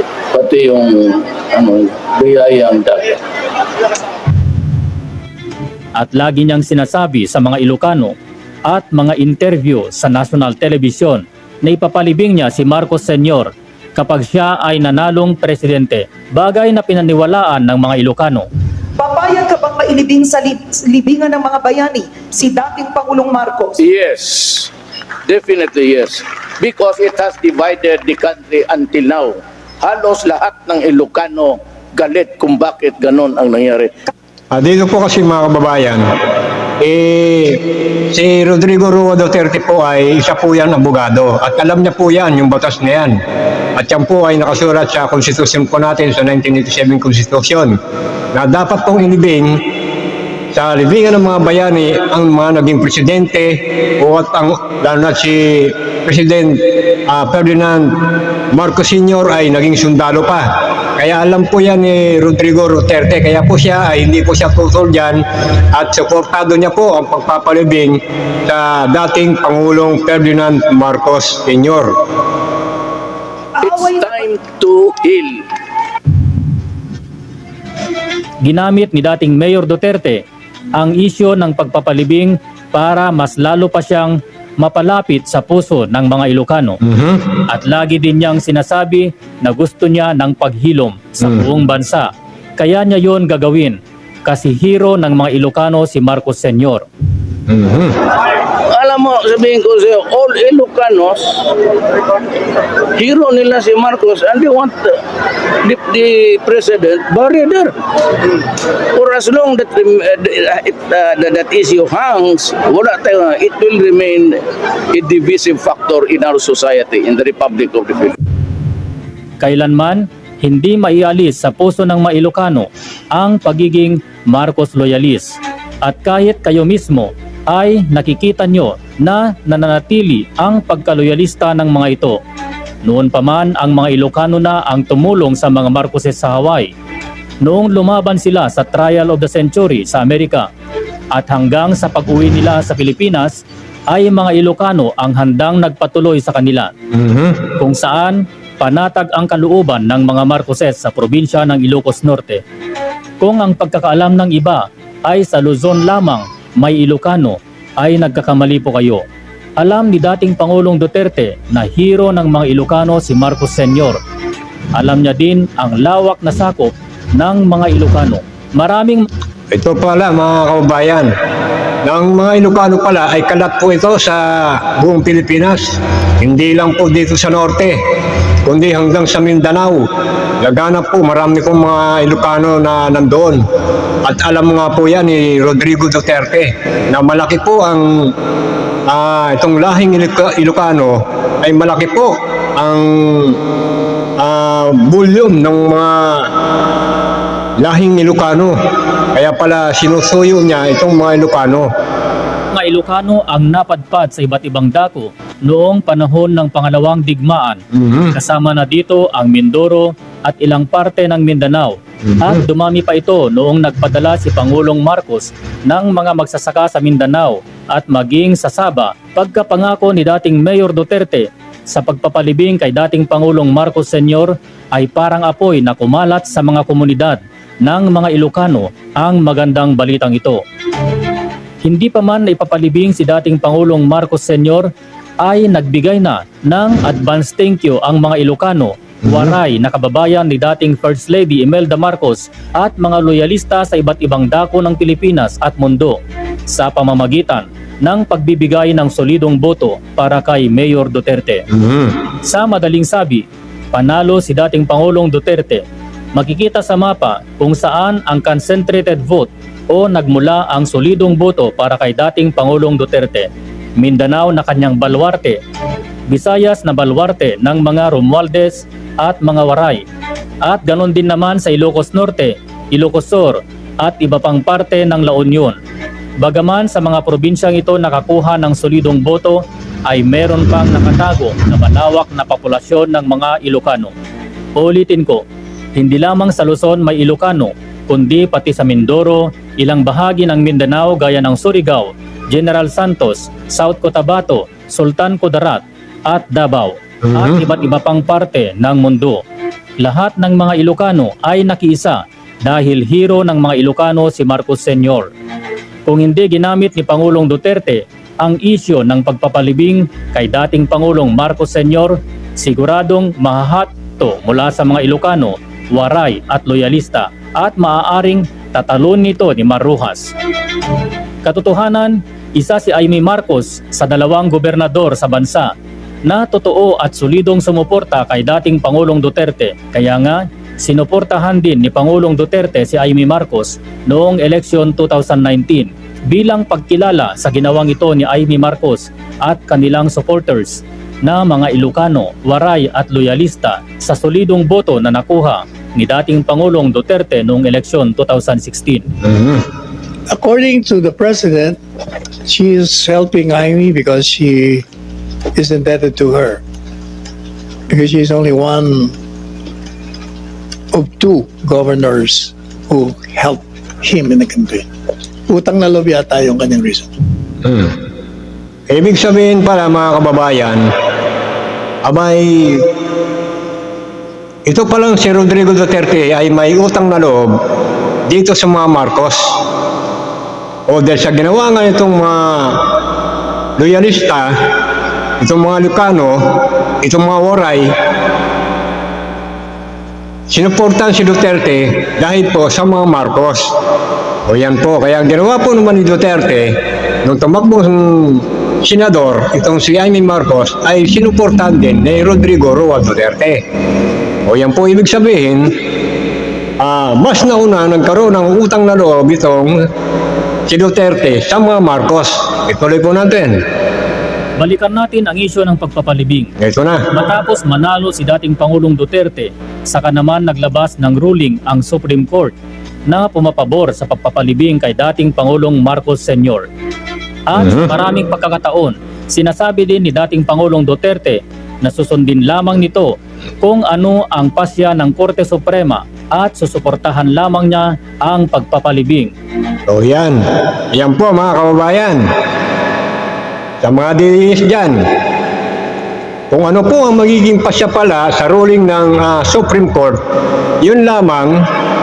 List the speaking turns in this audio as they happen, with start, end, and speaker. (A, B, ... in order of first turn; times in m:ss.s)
0:00.3-0:03.2 A
0:06.0-0:08.1 B
0:08.7-0:18.5 B
0:19.0-0:23.8 C
0:23.8-0:24.7 A
0:25.3-0:33.9 A
0:34.5-0:36.0 D
0:36.8-0:43.2 D
0:43.8-0:47.8 D
0:48.3-0:49.6 D
0:50.5-0:58.0 D
0:58.5-1:11.9 D
1:13.6-1:15.4 A
1:13.6-1:14.0 C
1:18.4-1:20.2 B
1:20.7-1:26.8 B
1:26.8-1:27.4 D
1:27.5-1:36.8 B
1:37.5-1:38.0 D
1:38.7-1:41.6 A
1:43.0-1:45.0 A
1:45.6-1:47.8 A
1:48.9-1:54.4 A
1:54.9-1:58.2 A
1:59.4-2:12.2 B
2:12.8-2:16.7 B
2:17.4-2:20.5 B
2:21.1-2:23.4 B
2:23.9-2:26.7 B
2:26.9-2:27.4 D
2:27.6-2:32.4 B
2:33.2-2:39.0 B
2:39.6-2:44.0 B
2:44.7-2:49.1 B
2:49.5-2:51.1 D
2:51.8-2:57.8 D
2:58.4-2:59.9 D
3:00.4-3:03.4 D
3:04.0-3:08.1 D
3:08.9-3:13.4 D
3:14.2-3:16.3 D
3:17.6-3:18.6 D
3:19.1-3:21.7 D
3:22.5-3:27.6 B
3:27.7-3:28.1 D
3:28.1-3:50.4 B
3:32.1-3:32.4 D
3:51.6-3:54.7 B
3:55.2-4:11.5 B
3:59.1-3:59.3 D
4:11.5-4:12.0 D
4:12.2-4:15.6 B
4:16.2-4:25.4 B
4:26.1-4:29.8 B
4:30.4-4:35.6 B
4:36.2-4:43.9 B
4:44.6-4:45.2 B
4:45.8-4:59.2 B
4:57.0-4:57.4 D
4:59.8-5:05.1 B
5:05.8-5:20.1 B
5:21.2-5:25.5 B
5:26.0-5:48.9 B
5:49.0-5:49.4 D
5:50.1-5:51.6 E
5:52.2-5:54.6 E
5:55.3-5:56.4 E
5:57.7-5:58.9 E
6:00.7-6:04.6 E
6:05.3-6:06.9 E
6:07.4-6:07.8 D
6:08.7-6:10.7 D
6:11.8-6:12.7 D
6:14.4-6:17.3 D
6:18.1-6:19.4 D
6:20.7-6:22.7 D
6:23.6-6:24.3 D
6:25.2-6:27.7 D
6:30.3-6:33.5 D
6:34.2-6:43.4 D
6:44.2-6:45.6 D
6:46.6-6:49.6 D
6:50.5-6:53.4 D
6:54.4-6:56.3 B
6:56.4-6:56.8 D
6:56.9-7:02.3 B
7:02.9-7:06.4 B
7:07.3-7:19.1 B
7:07.4-7:07.7 D
7:19.7-7:22.1 D
7:23.6-7:24.8 D
7:26.3-7:30.0 D
7:30.6-7:31.5 D